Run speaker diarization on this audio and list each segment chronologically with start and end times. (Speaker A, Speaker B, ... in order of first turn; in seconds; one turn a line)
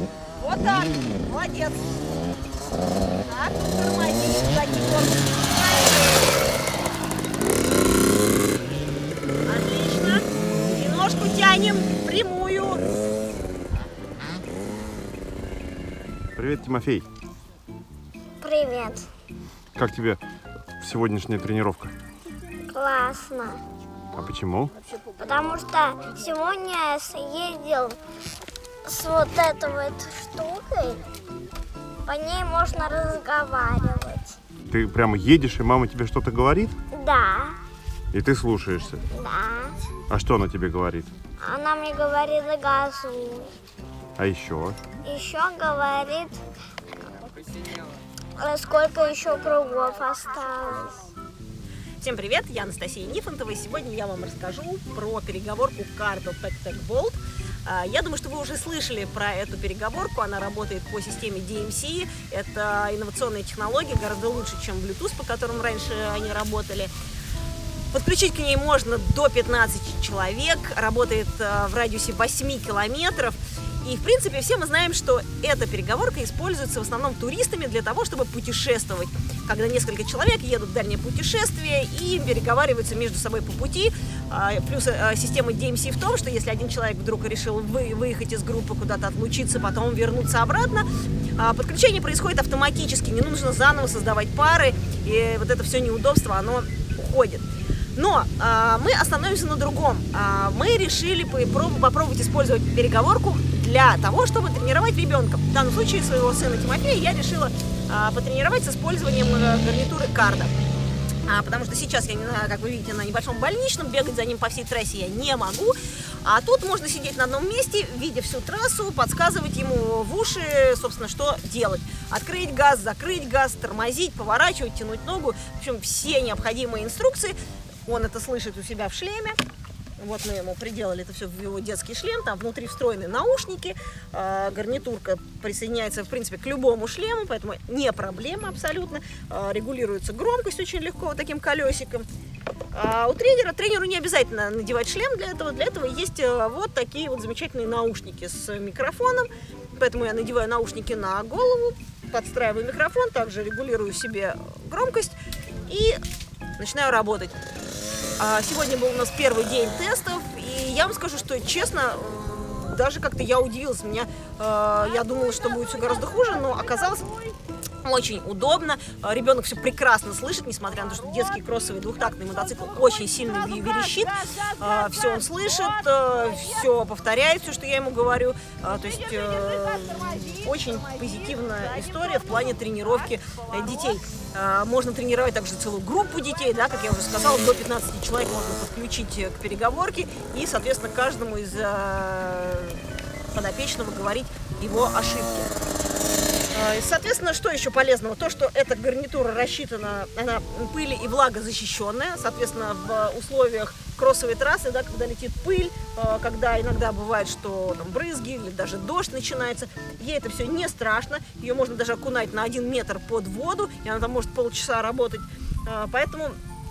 Speaker A: 0.4-2.0
Speaker A: 3.1-6.4
Speaker A: 9.4-12.8
Speaker B: 16.4-17.1
Speaker C: 18.4-19.1
Speaker B: 19.7-20.2
Speaker B: 20.8-21.9
Speaker C: 22.7-23.6
Speaker B: 24.1-24.7
Speaker C: 25.2-28.0
Speaker C: 28.8-31.0
Speaker C: 32.0-34.4
Speaker B: 34.6-36.8
Speaker C: 36.9-37.6
Speaker B: 38.1-39.0
Speaker C: 39.1-39.8
Speaker B: 40.1-41.1
Speaker C: 41.4-43.5
Speaker B: 44.2-44.8
Speaker C: 45.0-46.4
Speaker C: 48.4-51.1
Speaker A: 52.0-66.9
Speaker A: 67.9-97.4
Speaker A: 97.9-110.5
Speaker A: 111.2-129.4
Speaker A: 130.0-142.1
Speaker A: 142.7-156.0
Speaker A: 156.6-157.3
Speaker A: 158.2-167.2
Speaker A: 167.8-192.8
Speaker A: 193.3-195.5
Speaker A: 196.5-216.3